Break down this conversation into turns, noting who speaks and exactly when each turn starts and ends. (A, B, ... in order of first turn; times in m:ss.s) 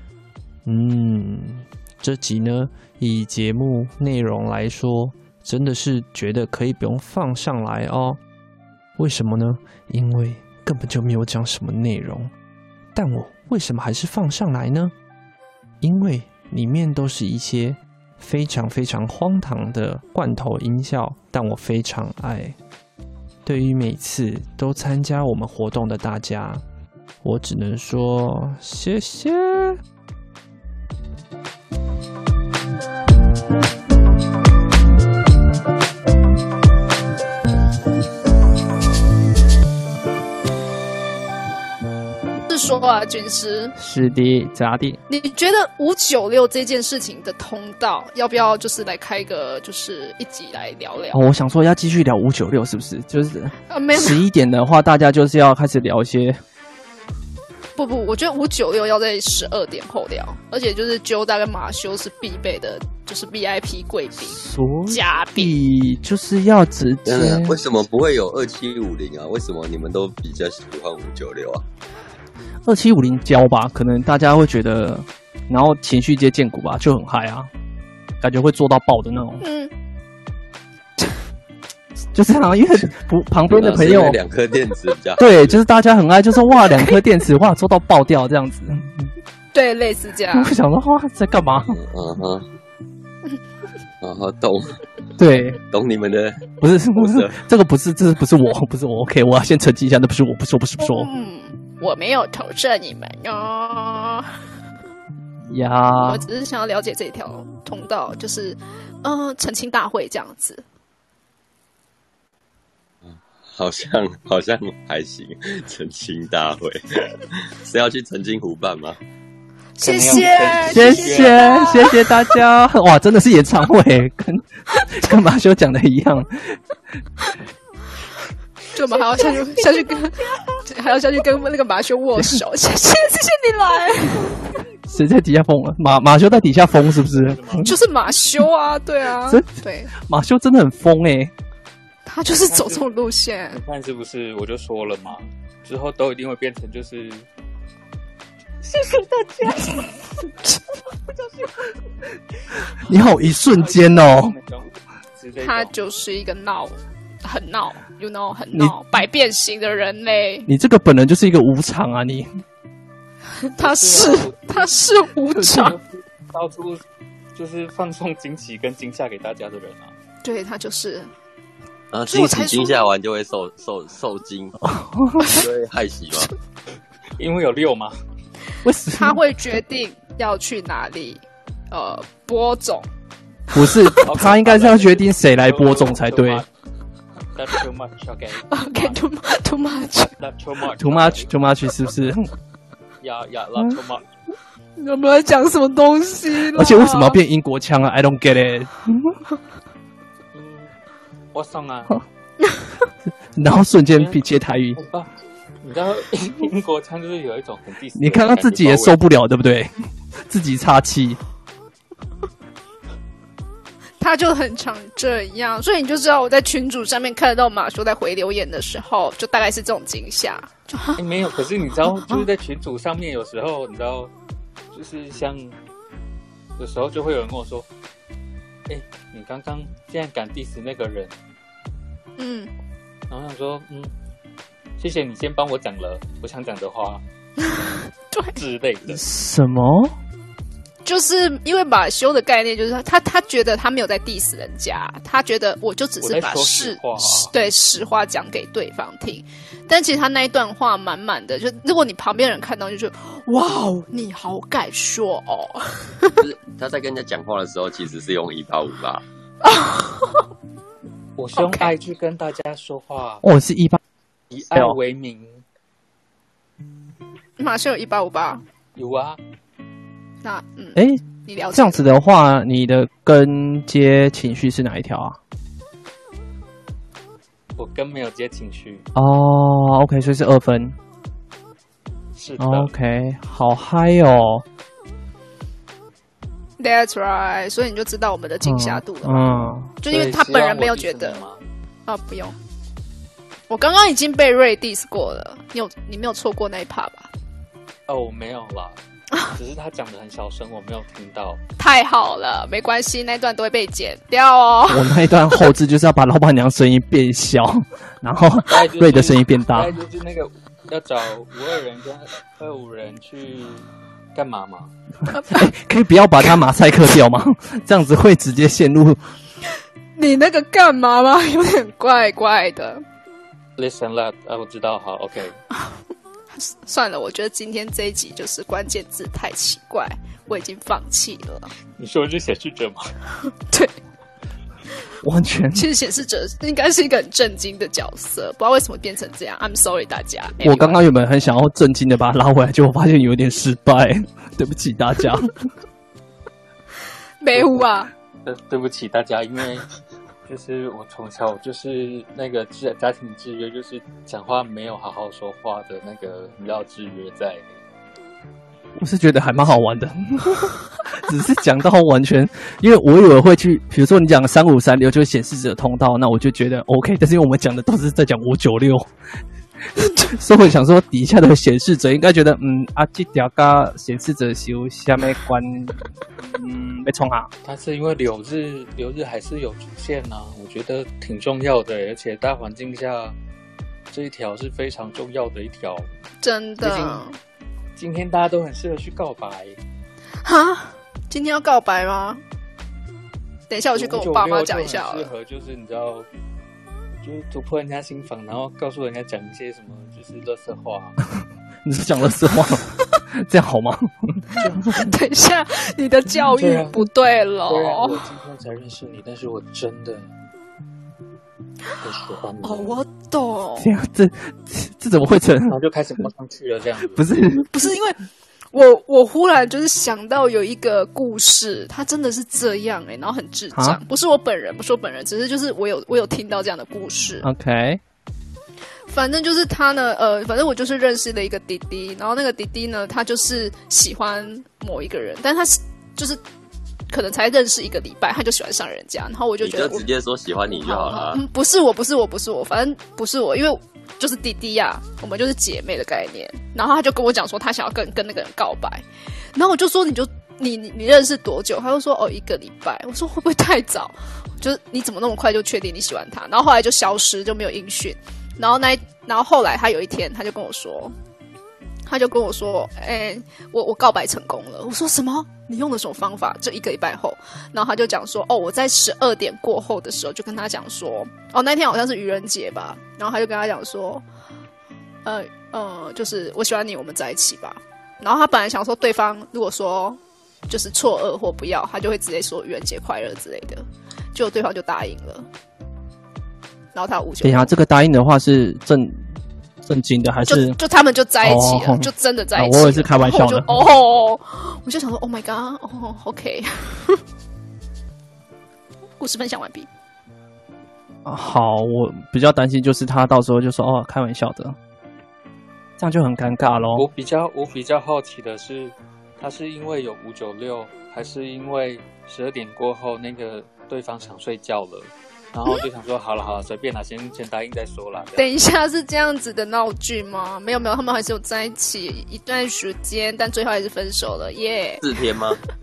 0:00.6-0:08.2 A
0:09.0-0:12.3 A
0:12.9-0:14.9 A
0:15.8-0:22.6 A
0:23.4-0:26.6 A
0:27.2-0:29.8 A
0:42.5-0:43.7 B
0:43.8-0:45.0 C
0:45.1-0:51.2 B
0:51.1-0:56.4 C
0:53.7-0:54.2 B
0:57.8-1:05.6 B
1:04.3-1:07.6 C
1:07.0-1:11.6 D
1:12.6-1:17.5 C
1:18.2-1:19.4 C
1:19.4-1:19.7 B
1:22.1-1:24.2 C
1:23.5-1:25.5 D
1:25.2-1:29.1 C
1:29.5-1:30.5 B
1:30.3-1:31.8 C
1:31.6-1:32.4 D
1:34.0-1:34.8 D
1:35.2-1:35.6 C
1:35.7-1:37.4 D
1:36.6-1:41.1 C
1:40.8-1:44.2 B
1:45.5-1:46.2 C
1:46.0-1:50.6 B
1:53.0-1:59.0 D
1:59.8-2:02.2 B
1:59.8-2:01.5 E
2:00.6-2:06.6 C
2:08.7-2:14.6 B
2:14.9-2:17.7 C
2:16.9-2:17.7 E
2:17.6-2:19.9 B
2:19.2-2:21.3 C
2:22.0-2:23.6 B
2:22.4-2:22.9 E
2:23.5-2:27.3 E
2:28.6-2:30.1 E
2:31.1-2:31.5 E
2:32.8-2:34.4 C
2:32.9-2:35.7 E
2:35.4-2:40.5 B
2:38.5-2:38.8 C
2:40.5-2:42.3 C
2:43.4-2:45.8 B
2:43.6-2:44.8 E
2:45.4-2:45.7 C
2:45.5-2:46.8 E
2:47.3-2:49.9 E
2:50.2-2:51.1 B
2:51.9-2:54.6 D
2:52.1-2:52.9 B
2:54.6-2:55.4 C
2:55.3-2:56.3 D
2:57.2-2:58.0 E
2:58.6-2:59.2 C
2:59.0-3:02.9 B
3:03.5-3:06.4 C
3:04.0-3:06.5 E
3:07.3-3:09.0 E
3:08.5-3:10.1 B
3:10.2-3:11.3 E
3:10.8-3:12.3 C
3:13.0-3:14.0 E
3:14.8-3:17.2 B
3:16.5-3:19.2 C
3:20.3-3:20.7 E
3:21.3-3:22.0 E
3:23.3-3:24.8 C
3:23.9-3:24.2 E
3:24.8-3:25.1 E
3:25.6-3:29.0 E
3:28.0-3:29.7 C
3:30.3-3:31.2 C
3:34.0-3:41.0 B
3:41.0-3:44.1 E
3:44.7-3:45.6 E
3:46.6-3:47.7 E
3:48.7-3:51.1 E
3:52.2-3:52.5 B
3:53.1-3:53.9 E
3:54.8-3:57.0 E
3:57.6-3:58.4 B
3:58.3-3:59.0 E
3:58.9-4:00.0 C
4:00.8-4:16.2 B
4:06.0-4:07.3 E
4:16.2-4:19.0 D
4:19.4-4:20.2 B
4:21.2-4:23.2 E
4:21.4-4:21.7 B
4:23.2-4:23.8 C
4:24.3-4:25.4 E
4:27.4-4:28.4 B
4:28.8-4:29.2 E
4:30.2-4:31.8 B
4:30.8-4:35.2 C
4:37.6-4:38.8 E
4:39.0-4:40.8 C
4:42.1-4:42.7 E
4:42.4-4:44.4 C
4:46.6-4:51.2 B
4:48.4-4:49.7 C
4:49.9-4:51.4 E
4:51.8-4:52.4 B
4:53.5-4:57.1 B
4:57.9-4:58.8 E
4:59.3-5:01.4 E
5:01.6-5:05.3 B
5:04.7-5:09.7 C
5:08.5-5:14.7 E
5:15.1-5:19.0 C
5:15.1-5:15.5 B
5:20.0-5:22.8 B
5:23.6-5:25.4 E
5:26.3-5:31.5 B
5:31.8-5:32.8 E
5:35.0-5:35.6 C
5:35.5-5:40.8 B
5:40.4-5:45.4 C
5:47.2-5:47.9 B
5:47.3-5:47.7 E
5:48.2-5:49.7 E
5:50.2-5:57.4 E
5:58.8-6:08.9 C
6:09.8-6:17.3 C
6:17.4-6:23.2 E
6:23.9-6:25.9 E
6:26.2-6:27.2 B
6:26.6-6:27.0 E
6:27.8-6:29.6 E
6:30.2-6:32.2 B
6:33.5-6:35.1 B
6:33.7-6:36.1 E
6:37.0-6:41.0 E
6:41.6-6:44.5 C
6:44.6-6:48.0 B
6:46.3-6:46.8 E
6:47.4-6:50.1 E
6:51.8-6:52.8 E
6:52.4-6:53.7 B
6:53.6-6:55.5 C
6:55.5-6:57.1 E
6:56.9-6:57.5 C
6:57.4-6:58.0 B
6:58.5-7:07.3 B
7:03.5-7:03.8 C
7:07.2-7:07.8 C
7:08.9-7:16.2 B
7:16.9-7:19.9 B
7:19.4-7:21.2 D
7:20.5-7:28.8 B
7:29.3-7:40.9 B
7:41.8-7:54.0 B
7:55.0-8:03.6 B
8:04.1-8:05.2 B
8:06.7-8:07.5 B
8:07.2-8:09.0 C
8:09.6-8:10.6 C
8:10.2-8:17.0 B
8:11.2-8:13.5 C
8:19.0-8:19.7 B
8:21.0-8:24.6 C
8:25.8-8:26.9 C
8:26.5-8:38.2 E
8:38.2-8:44.8 B
8:44.8-8:45.4 D